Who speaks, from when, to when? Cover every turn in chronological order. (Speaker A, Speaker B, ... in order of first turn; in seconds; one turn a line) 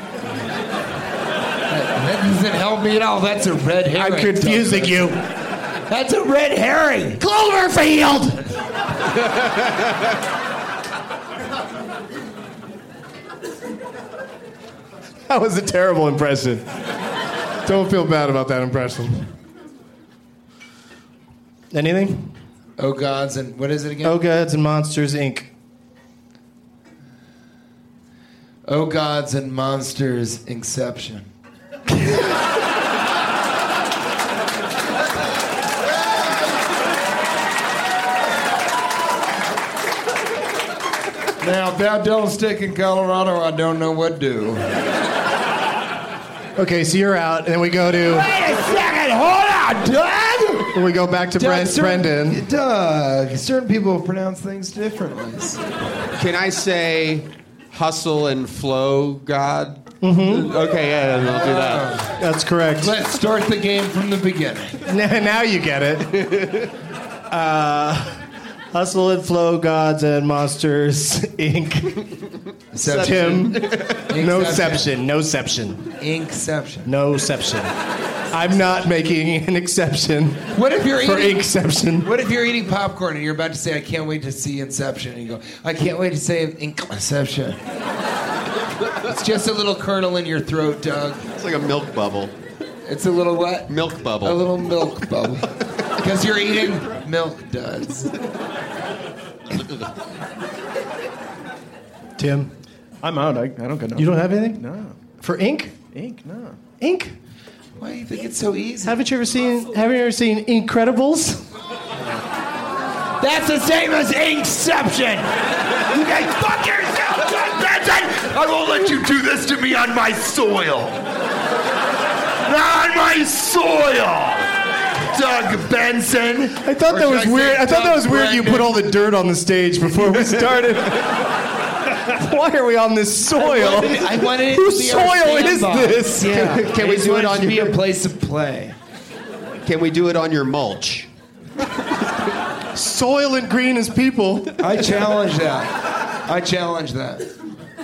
Speaker A: 1.7-5.1
Speaker B: 4.0-5.2
Speaker A: 5.9-7.2
Speaker B: 7.2-8.5
Speaker B: 15.3-16.7
Speaker B: 17.6-19.3
Speaker B: 21.7-22.3
Speaker A: 22.8-24.2
Speaker B: 24.0-25.5
Speaker A: 28.7-31.3
Speaker A: 41.4-44.7
Speaker B: 46.6-48.3
Speaker A: 48.0-50.7
Speaker B: 50.7-52.4
Speaker A: 51.4-55.6
Speaker C: 56.2-62.0
Speaker B: 60.0-60.5
Speaker A: 61.2-62.1
Speaker B: 62.2-63.0
Speaker A: 62.8-64.8
Speaker B: 64.9-66.6
Speaker C: 66.3-66.5
Speaker B: 67.3-68.2
Speaker B: 68.7-72.1
Speaker A: 72.7-74.9
Speaker C: 72.8-74.1
Speaker B: 72.9-75.9
Speaker A: 76.0-76.9
Speaker B: 76.9-77.7
Speaker B: 78.3-82.1
Speaker A: 80.5-81.4
Speaker A: 82.0-87.6
Speaker A: 89.0-91.2
Speaker C: 91.4-92.3
Speaker A: 92.9-98.1
Speaker C: 93.7-94.5
Speaker B: 102.2-102.5
Speaker D: 103.0-105.0
Speaker B: 104.0-104.6
Speaker B: 105.2-105.8
Speaker D: 105.9-106.6
Speaker B: 106.8-107.1
Speaker A: 107.8-109.0
Speaker B: 108.8-111.4
Speaker A: 113.2-121.0
Speaker A: 122.4-124.5
Speaker A: 125.0-128.8
Speaker B: 126.6-131.0
Speaker C: 130.1-130.9
Speaker B: 132.1-136.6
Speaker A: 133.4-138.8
Speaker C: 136.1-137.7
Speaker C: 139.6-141.1
Speaker B: 142.8-144.7
Speaker A: 144.6-147.3